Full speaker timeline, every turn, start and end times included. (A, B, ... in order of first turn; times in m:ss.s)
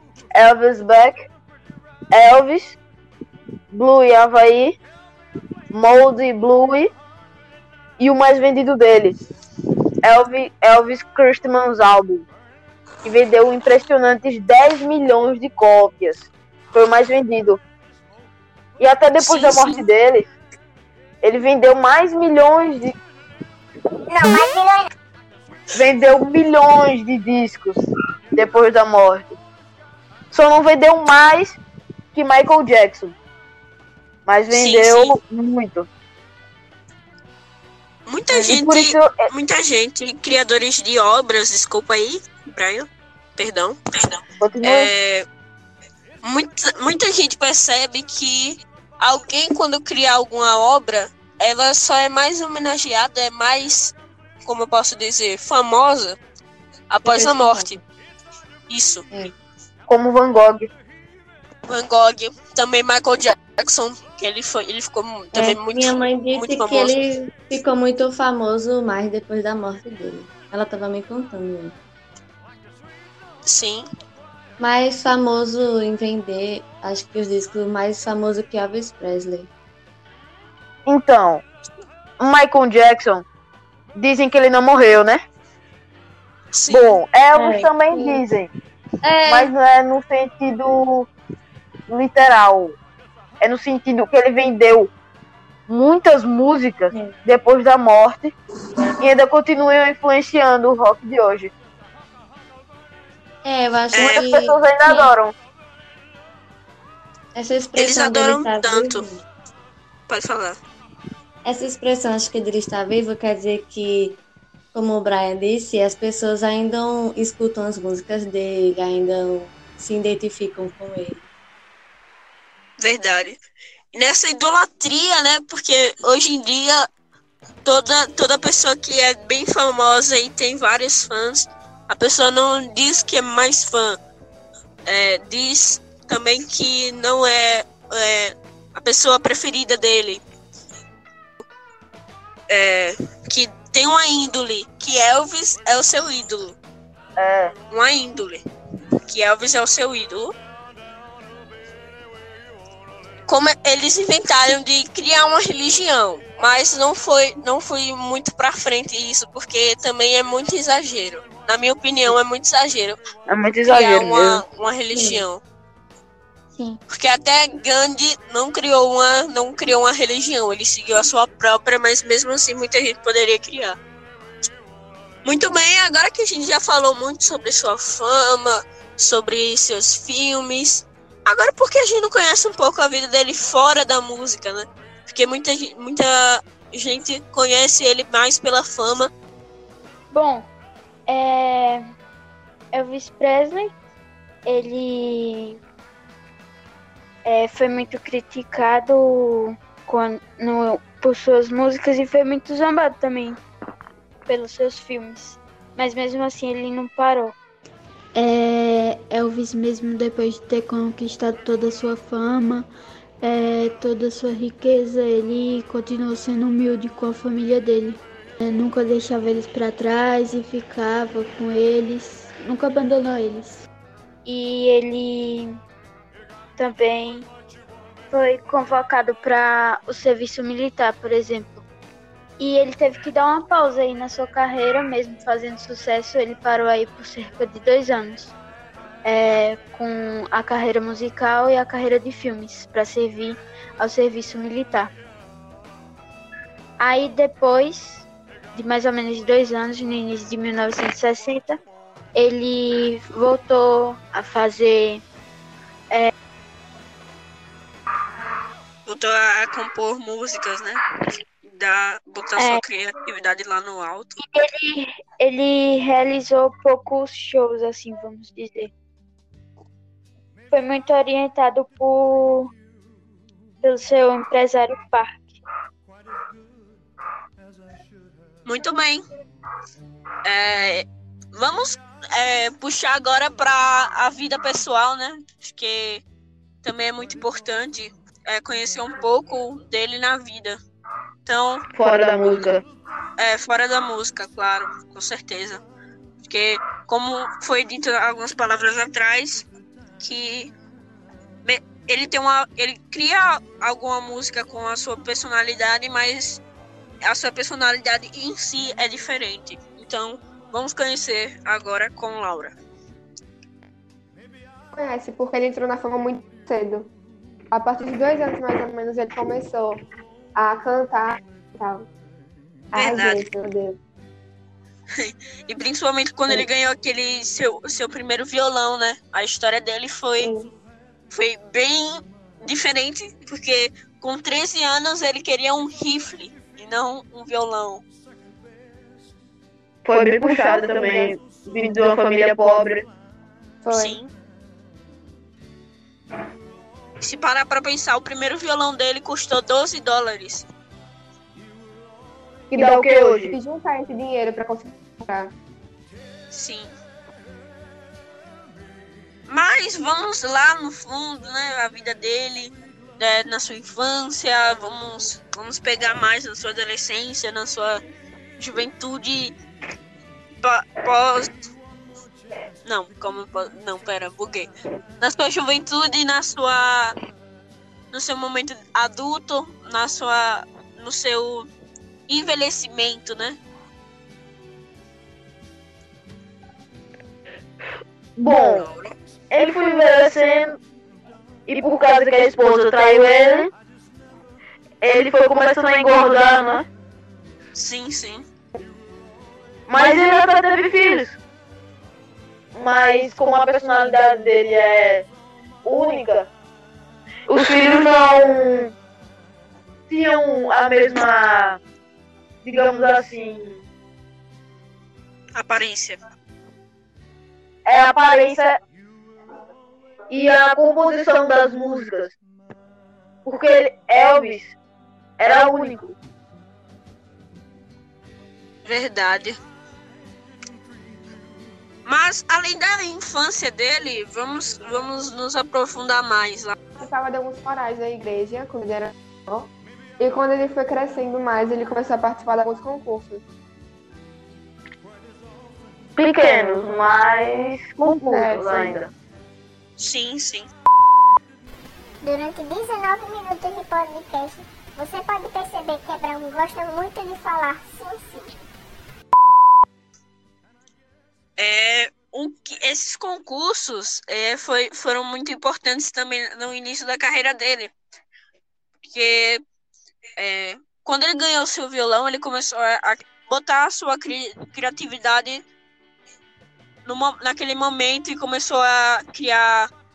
0:00.3-0:01.2 A
0:02.1-0:02.8 A
0:03.7-0:04.8 A
0:05.7-0:06.9 A
0:08.0-0:09.2 A
0:10.0-0:12.3 A
0:13.0-0:17.6 A
0:18.8-0:20.3 A
0:19.2-0:19.9 B
0:21.2-0:23.0 A
0:24.1-0:24.9 C
0:25.7-0:27.8 A
0:28.4-0:29.3 A
0:30.3-0:31.6 A
0:32.2-0:33.2 A
0:34.3-0:35.9 A
0:34.5-0:35.2 B
0:38.1-0:45.3 B
0:38.3-0:39.2 A
0:44.4-0:44.9 A
0:46.2-0:56.2 B
0:56.9-0:57.8 B
0:57.0-0:57.8 D
0:58.7-0:59.1 B
0:59.9-1:00.7 A
1:01.7-1:07.0 B
1:05.3-1:11.8 D
1:13.4-1:13.9 B
1:14.6-1:19.5 D
1:20.9-1:21.4 A
1:22.2-1:23.2 A
1:24.0-1:25.2 A
1:26.5-1:27.0 B
1:26.7-1:28.5 A
1:27.3-1:28.2 D
1:29.0-1:29.5 D
1:29.3-1:31.1 A
1:31.9-1:32.8 A
1:33.4-1:34.9 A
1:35.7-1:38.3 A
1:39.0-1:41.5 A
1:43.4-1:45.1 D
1:43.9-1:44.3 B
1:44.0-1:45.3 A
1:47.4-1:49.2 D
1:47.8-1:49.0 B
1:50.1-1:50.6 B
1:51.4-1:54.2 D
1:54.7-2:01.2 D
2:02.8-2:03.4 B
2:03.9-2:06.9 B
2:07.6-2:14.0 B
2:14.9-2:20.2 B
2:22.5-2:26.6 B
2:27.2-2:27.5 A
2:27.7-2:28.4 B
2:29.1-2:30.4 B
2:33.3-2:43.0 B
2:43.3-2:44.4 A
2:43.7-2:45.4 B
2:46.9-2:53.8 B
2:55.2-3:09.1 B
3:10.1-3:10.5 E
3:11.1-3:11.8 E
3:12.7-3:13.7 E
3:14.5-3:15.6 E
3:17.2-3:23.4 E
3:24.3-3:27.4 E
3:28.2-3:32.7 F
3:33.2-3:43.7 F
3:44.2-3:45.6 E
3:46.6-3:47.3 E
3:48.1-3:51.6 E
3:52.4-3:58.3 E
3:59.0-4:04.9 E
4:06.8-4:11.6 E
4:12.2-4:15.0 E
4:18.9-4:20.8 B
4:21.4-4:24.2 B
4:24.2-4:28.7 E
4:30.5-4:32.5 E
4:33.6-4:35.4 E
4:38.4-4:39.0 B
4:40.2-4:46.0 B
4:46.6-4:50.6 B
4:51.3-4:51.7 B
4:51.8-4:52.6 A
4:53.2-4:55.6 B
4:56.2-4:59.5 B
5:00.0-5:00.5 B
5:01.4-5:06.4 B
5:07.0-5:12.6 B
5:14.7-5:16.9 G
5:17.5-5:19.8 G
5:20.4-5:21.9 G
5:22.7-5:23.8 G
5:22.8-5:23.3 B
5:24.9-5:30.3 B
5:30.2-5:30.5 G
5:31.1-5:37.8 B
5:39.8-5:42.8 A
5:40.3-5:41.2 G
5:43.6-5:44.0 G
5:43.7-5:44.1 B
5:47.0-5:50.5 B
5:52.5-5:53.4 A
5:52.7-5:55.3 G
5:56.3-5:56.7 B
5:59.3-6:07.8 B
6:08.4-6:09.4 B
6:10.4-6:11.3 B
6:12.6-6:17.0 B
6:17.9-6:21.5 B
6:22.1-6:23.4 B
6:28.2-6:28.7 A
6:28.3-6:28.9 B
6:29.3-6:30.6 A
6:31.5-6:33.5 A
6:34.8-6:36.7 A
6:37.5-6:38.3 B
6:39.7-6:41.2 A
6:42.6-6:45.0 A
6:45.6-6:46.3 A
6:47.3-6:48.7 A
6:49.9-6:51.6 A
6:52.4-6:53.6 A
6:55.3-6:56.0 B
6:57.7-6:58.6 A
7:00.1-7:02.1 A
7:03.2-7:04.5 A
7:05.2-7:05.9 A
7:08.6-7:09.4 B
7:11.8-7:16.6 B
7:16.8-7:23.2 G
7:26.0-7:28.9 A
7:28.0-7:28.8 G
7:29.8-7:30.5 B
7:32.0-7:38.4 C
7:41.4-7:47.7 B
7:48.8-7:49.4 B
7:50.2-7:55.4 B
7:56.9-7:59.7 B